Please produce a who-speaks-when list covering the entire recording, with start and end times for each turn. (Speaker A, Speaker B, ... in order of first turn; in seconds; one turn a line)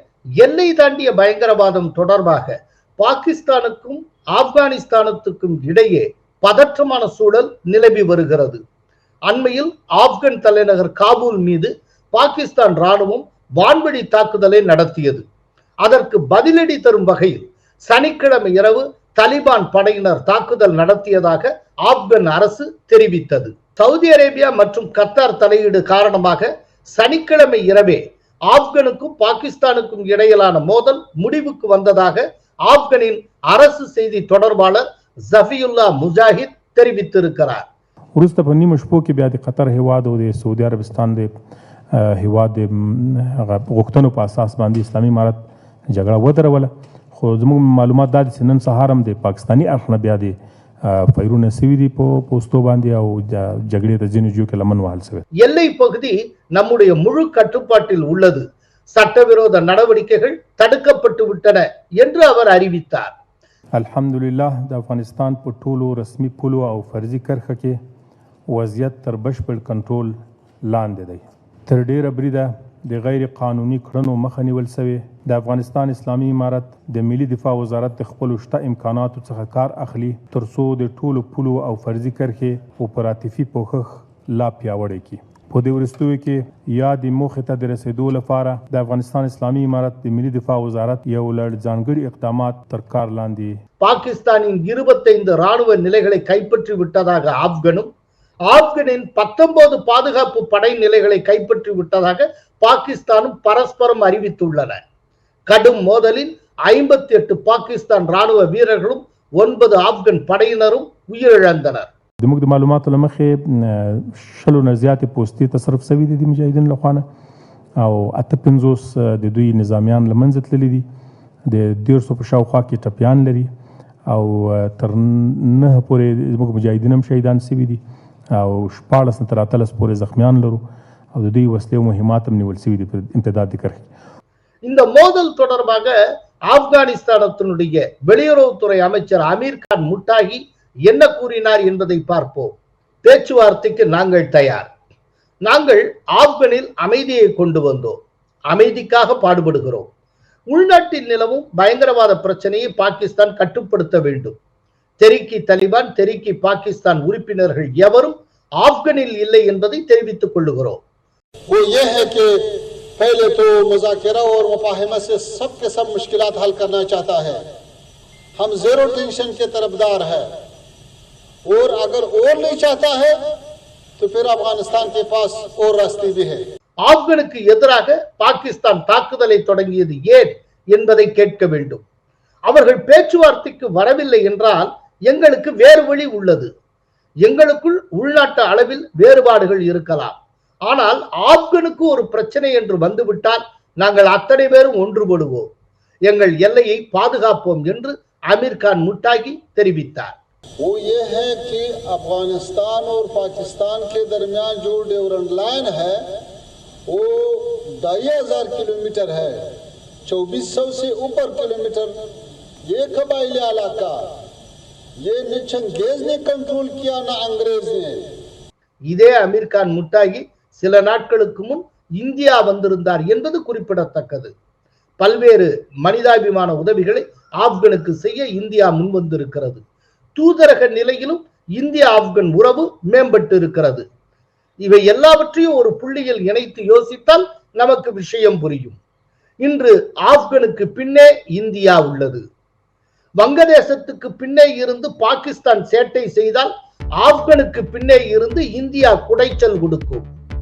Speaker A: 0.4-8.6
Speaker A: 9.3-15.2
Speaker A: 15.8-37.6
Speaker B: 38.2-41.3
Speaker B: 41.9-45.4
Speaker B: 45.9-55.2
Speaker A: 55.4-63.1
Speaker B: 63.8-67.8
Speaker B: 68.5-70.1
Speaker B: 70.7-93.5
Speaker A: 93.8-97.9
Speaker A: 98.5-104.8
Speaker A: 105.5-111.9
Speaker B: 112.2-117.0
Speaker B: 117.8-120.8
Speaker B: 121.5-123.5
Speaker B: 124.1-127.8
Speaker B: 128.3-130.6
Speaker B: 131.1-133.9
Speaker A: 134.7-135.9
Speaker A: 136.5-144.7
Speaker A: 145.5-148.0
Speaker A: 148.5-149.9
Speaker A: 150.5-154.4
Speaker A: 155.0-160.8
Speaker C: 161.5-162.4
Speaker C: 163.0-167.4
Speaker C: 168.4-170.3
Speaker C: 171.5-173.2
Speaker C: 174.0-176.4
Speaker A: 176.8-181.8
Speaker A: 182.5-186.5
Speaker A: 187.2-190.2
Speaker A: 190.7-195.5
Speaker A: 196.1-200.2
Speaker C: 200.6-206.1
Speaker C: 206.9-209.5
Speaker C: 210.1-212.0
Speaker C: 212.7-214.1
Speaker C: 215.0-218.0
Speaker A: 218.9-224.3
Speaker A: 225.0-229.6
Speaker A: 230.2-233.9
Speaker A: 234.6-238.8
Speaker A: 239.4-242.2
Speaker A: 243.2-250.1